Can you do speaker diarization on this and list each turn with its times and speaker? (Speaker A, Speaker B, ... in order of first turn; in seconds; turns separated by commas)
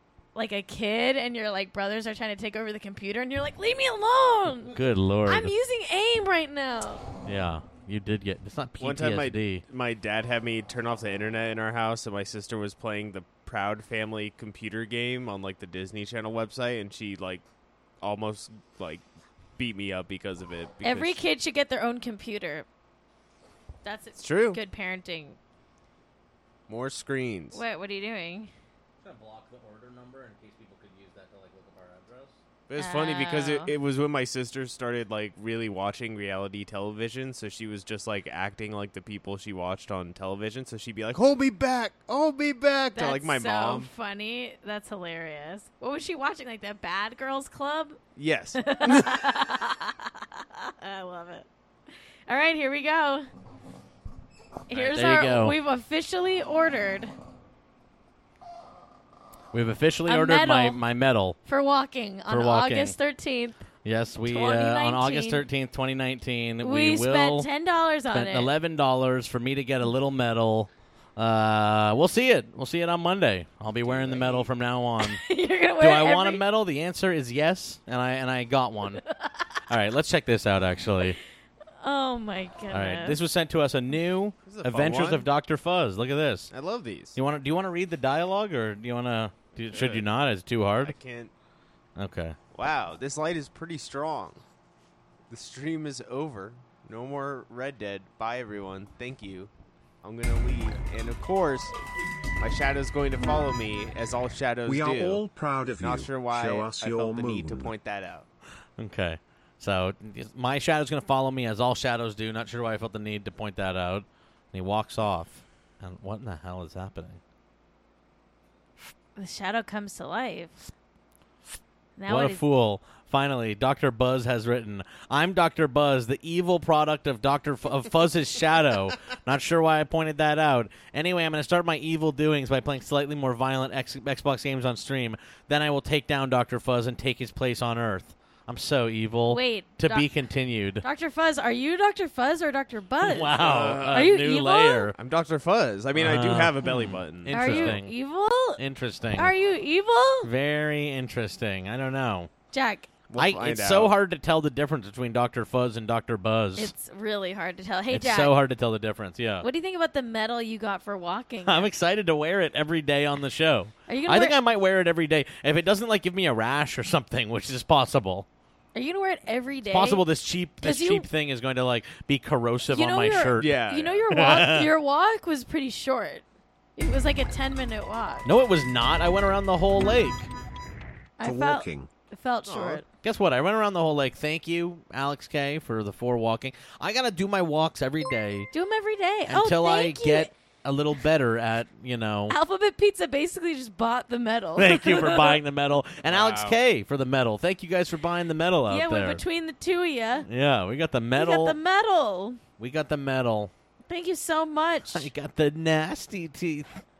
Speaker A: 0.3-7.0, Speaker B: 4.7-5.5, Speaker B: 7.2-9.6, Speaker C: 8.8-17.4, Speaker C: 18.0-19.0, Speaker C: 19.6-21.2, Speaker A: 20.8-22.7, Speaker A: 23.8-25.4, Speaker C: 24.2-24.6, Speaker C: 26.7-27.6, Speaker A: 27.5-28.5, Speaker B: 29.0-32.4, Speaker C: 32.7-43.9, Speaker A: 32.8-33.7, Speaker A: 42.9-48.0, Speaker C: 48.1-49.3, Speaker A: 48.6-51.5, Speaker A: 52.3-53.3, Speaker A: 54.7-57.1, Speaker B: 54.7-55.6, Speaker B: 59.5-61.4, Speaker A: 60.1-60.8, Speaker A: 61.4-63.6, Speaker B: 62.3-63.0, Speaker B: 63.8-67.5, Speaker A: 64.2-65.4, Speaker A: 66.6-68.5, Speaker B: 68.1-75.2, Speaker C: 73.8-74.5, Speaker A: 75.0-76.4, Speaker B: 75.8-79.0, Speaker A: 79.2-79.5, Speaker B: 79.7-81.2, Speaker A: 81.8-83.2, Speaker B: 82.7-86.5, Speaker C: 84.4-85.3, Speaker C: 86.5-87.2, Speaker B: 87.1-90.9, Speaker C: 89.7-90.0, Speaker C: 90.8-91.3, Speaker B: 92.0-92.4, Speaker C: 92.5-94.4, Speaker C: 95.3-99.5, Speaker C: 100.0-101.7, Speaker C: 102.4-105.2, Speaker D: 104.7-107.7, Speaker C: 105.8-108.3, Speaker B: 108.8-117.2, Speaker A: 119.2-120.7, Speaker A: 122.0-122.4, Speaker B: 122.1-140.8, Speaker A: 139.3-140.1, Speaker A: 140.8-143.4, Speaker B: 143.0-144.9, Speaker C: 143.3-144.0, Speaker A: 143.9-144.9, Speaker C: 144.9-147.8, Speaker B: 145.9-147.9, Speaker A: 147.3-148.6, Speaker B: 148.6-149.3, Speaker A: 149.1-150.3, Speaker B: 150.2-152.3, Speaker A: 152.5-152.9, Speaker C: 153.1-153.9, Speaker B: 153.2-156.7, Speaker A: 156.6-158.3, Speaker B: 157.9-159.4, Speaker A: 159.4-161.7, Speaker B: 161.4-168.3, Speaker A: 163.9-164.4, Speaker A: 168.7-170.1, Speaker B: 169.7-173.6, Speaker A: 170.6-171.1, Speaker A: 172.7-176.2, Speaker C: 173.4-174.0, Speaker B: 174.1-174.7, Speaker A: 176.8-178.3, Speaker B: 178.2-180.3, Speaker A: 181.2-182.8, Speaker D: 181.2-181.9, Speaker C: 182.5-182.8, Speaker B: 183.0-188.5, Speaker A: 188.5-190.3, Speaker B: 189.3-192.4, Speaker A: 192.3-195.4, Speaker B: 194.6-199.2, Speaker C: 196.1-196.6, Speaker A: 198.7-200.3, Speaker B: 200.2-201.6, Speaker A: 201.1-202.4, Speaker B: 202.6-203.5, Speaker A: 203.9-205.1, Speaker B: 204.9-206.8